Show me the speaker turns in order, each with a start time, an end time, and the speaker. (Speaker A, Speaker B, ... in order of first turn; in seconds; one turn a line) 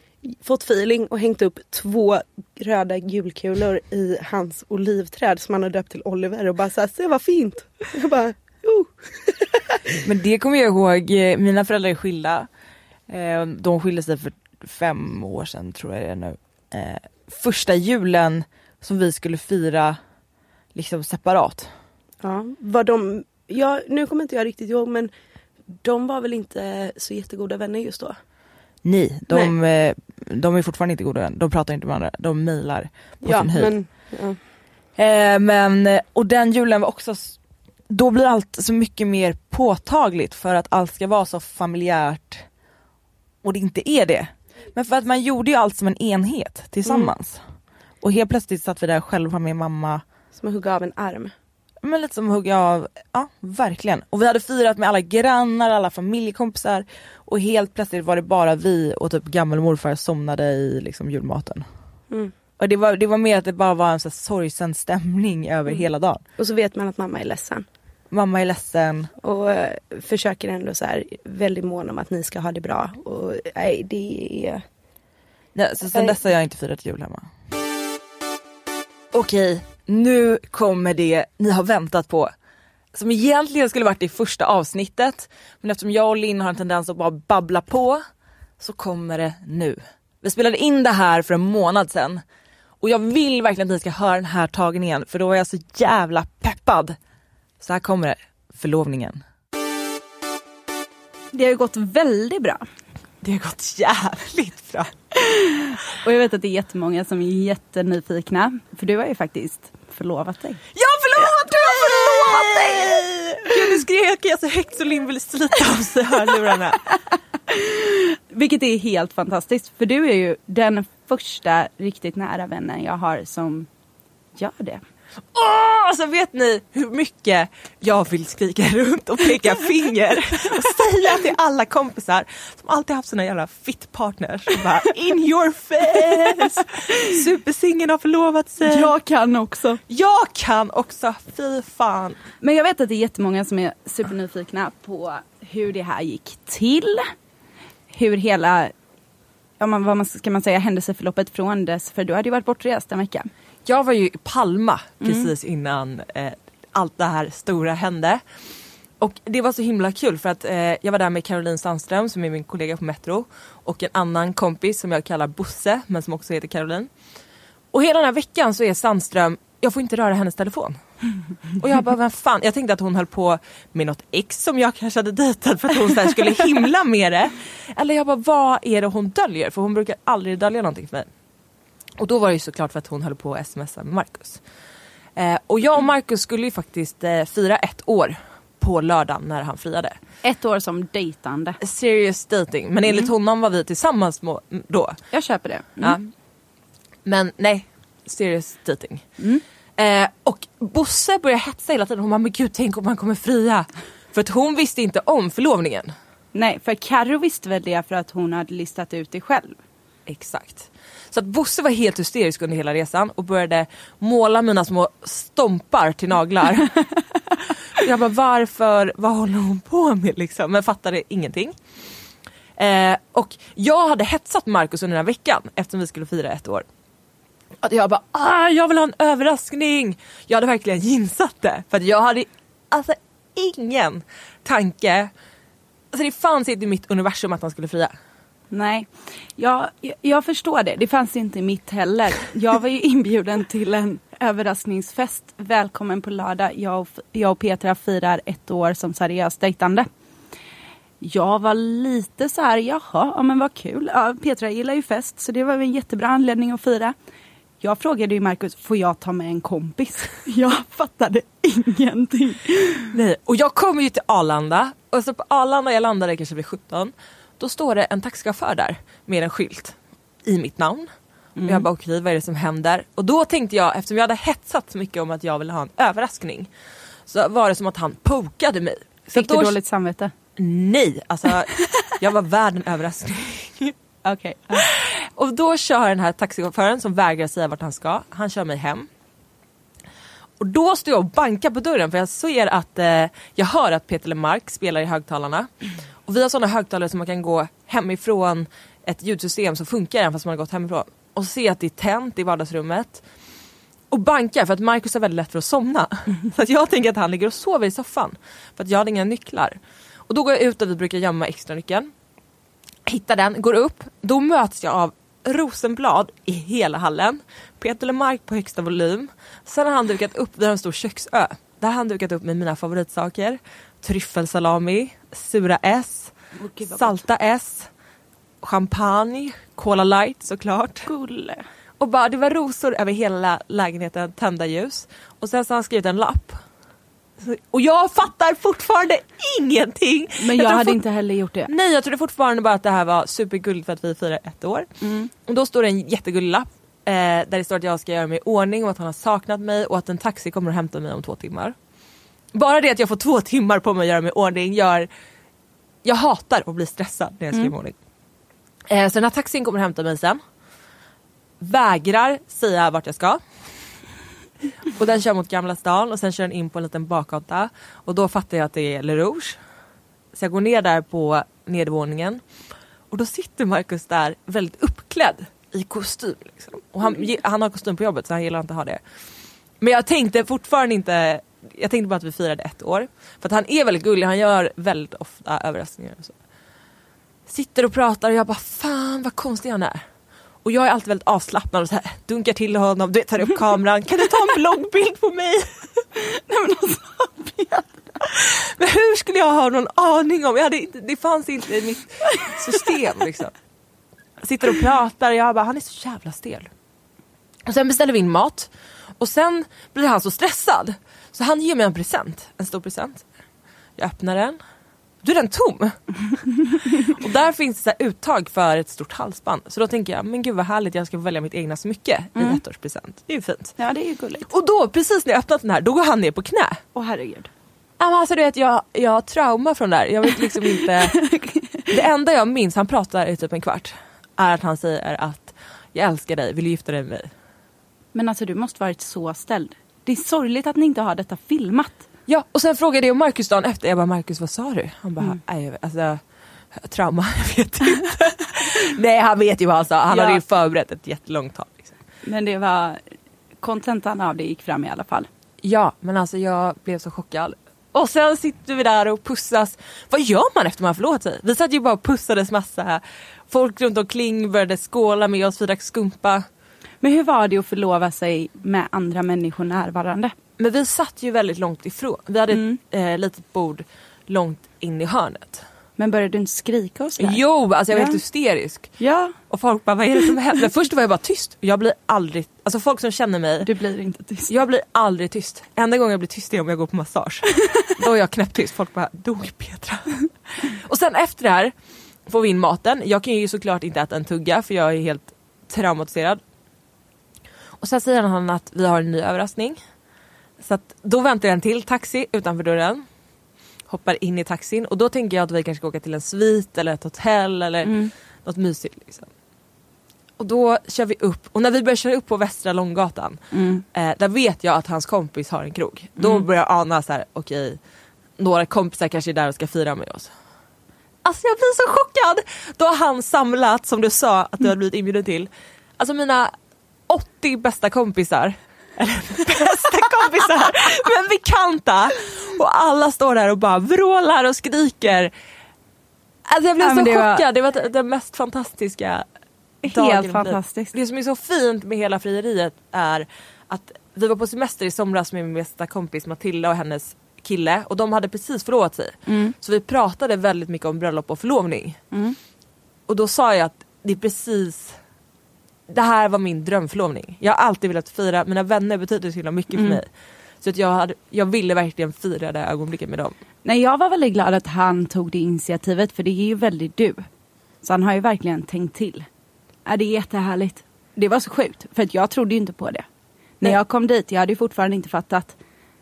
Speaker A: 0.2-9.8
Speaker B: 10.0-12.5
Speaker B: 13.1-20.0
Speaker B: 20.7-21.7
Speaker A: 22.2-25.1
Speaker A: 25.7-28.1
Speaker B: 28.8-33.7
Speaker A: 33.2-34.4
Speaker B: 35.0-37.4
Speaker B: 37.9-42.4
Speaker B: 43.4-47.4
Speaker A: 46.9-47.1
Speaker B: 48.0-50.0
Speaker A: 50.3-51.3
Speaker B: 51.8-61.6
Speaker B: 62.6-66.2
Speaker A: 66.4-67.7
Speaker B: 68.1-69.1
Speaker A: 69.2-74.6
Speaker B: 75.5-77.3
Speaker B: 79.1-82.3
Speaker B: 82.9-88.0
Speaker B: 88.6-92.2
Speaker B: 92.8-97.0
Speaker B: 97.6-99.2
Speaker C: 101.3-102.6
Speaker B: 103.2-104.9
Speaker C: 106.0-110.6
Speaker B: 110.7-116.8
Speaker C: 117.5-123.7
Speaker C: 124.3-124.8
Speaker B: 125.3-138.9
Speaker C: 136.1-136.5
Speaker C: 138.6-139.8
Speaker B: 139.9-142.2
Speaker C: 142.4-147.1
Speaker C: 147.9-148.7
Speaker C: 149.6-153.3
Speaker B: 153.7-158.2
Speaker C: 155.0-155.3
Speaker B: 159.0-166.9
Speaker B: 167.7-170.8
Speaker B: 171.6-181.1
Speaker B: 182.0-184.4
Speaker B: 185.2-190.0
Speaker C: 190.2-191.6
Speaker B: 191.6-195.0
Speaker C: 195.1-196.0
Speaker B: 195.8-196.1
Speaker B: 197.0-199.0
Speaker B: 199.8-205.9
Speaker C: 206.3-209.6
Speaker B: 210.1-216.7
Speaker B: 217.8-221.6
Speaker B: 222.6-226.7
Speaker B: 227.6-235.1
Speaker B: 235.9-237.9
Speaker C: 238.5-249.9
Speaker C: 251.0-256.9
Speaker C: 257.6-262.9
Speaker B: 262.9-269.7
Speaker B: 270.2-270.9
Speaker C: 271.4-271.7
Speaker B: 271.4-276.5
Speaker B: 277.1-279.6
Speaker C: 279.1-280.1
Speaker B: 280.4-283.7
Speaker C: 284.0-284.6
Speaker B: 284.5-288.9
Speaker B: 290.4-295.5
Speaker B: 296.1-303.0
Speaker B: 303.9-311.9
Speaker B: 312.9-326.1
Speaker C: 326.6-326.8
Speaker B: 326.7-327.7
Speaker B: 328.4-330.9
Speaker C: 330.9-331.4
Speaker B: 331.8-336.4
Speaker B: 337.2-340.8
Speaker C: 340.2-341.5
Speaker B: 341.5-344.7
Speaker C: 344.8-345.1
Speaker B: 345.2-351.5
Speaker B: 352.3-354.9
Speaker B: 355.8-357.7
Speaker B: 358.7-360.2
Speaker B: 361.4-363.2
Speaker B: 364.8-369.4
Speaker B: 370.1-372.2
Speaker B: 372.9-378.8
Speaker B: 379.6-386.1
Speaker B: 387.3-389.8
Speaker B: 390.4-395.5
Speaker C: 396.0-398.0
Speaker B: 398.1-403.3
Speaker B: 404.2-406.5
Speaker B: 407.5-413.0
Speaker B: 413.8-414.4
Speaker B: 415.0-415.8
Speaker B: 417.0-423.5
Speaker C: 422.1-422.4
Speaker C: 423.6-424.3
Speaker B: 424.3-426.6
Speaker C: 426.7-427.3
Speaker B: 427.8-430.9
Speaker C: 430.1-431.8
Speaker B: 431.7-437.1
Speaker C: 437.9-441.8
Speaker B: 442.1-446.0
Speaker B: 446.5-451.7
Speaker C: 449.9-450.2
Speaker C: 452.0-452.8
Speaker C: 453.4-455.1
Speaker B: 455.4-466.2
Speaker C: 466.8-470.1
Speaker B: 470.4-475.4
Speaker C: 472.3-472.6
Speaker C: 475.8-478.0
Speaker B: 477.0-478.7
Speaker C: 478.8-479.2
Speaker B: 479.3-483.5
Speaker C: 483.4-484.3
Speaker B: 484.3-491.5
Speaker C: 487.2-487.7
Speaker B: 492.1-496.2
Speaker B: 497.6-499.6
Speaker B: 500.4-502.9
Speaker B: 503.7-509.1
Speaker C: 507.6-507.9
Speaker B: 510.2-513.2
Speaker C: 513.3-513.6
Speaker B: 513.7-517.6
Speaker C: 516.0-516.3
Speaker B: 518.2-520.1
Speaker B: 521.0-526.3
Speaker B: 526.9-535.1
Speaker C: 530.0-530.5
Speaker B: 536.3-539.0
Speaker C: 536.6-537.3
Speaker C: 539.6-540.7
Speaker B: 539.7-551.8
Speaker C: 549.0-549.4
Speaker C: 551.9-552.2
Speaker B: 552.9-554.8
Speaker B: 555.7-559.9
Speaker C: 559.5-559.8
Speaker B: 560.4-563.1
Speaker C: 563.4-567.0
Speaker C: 567.6-569.1
Speaker C: 569.6-572.8
Speaker C: 573.4-575.4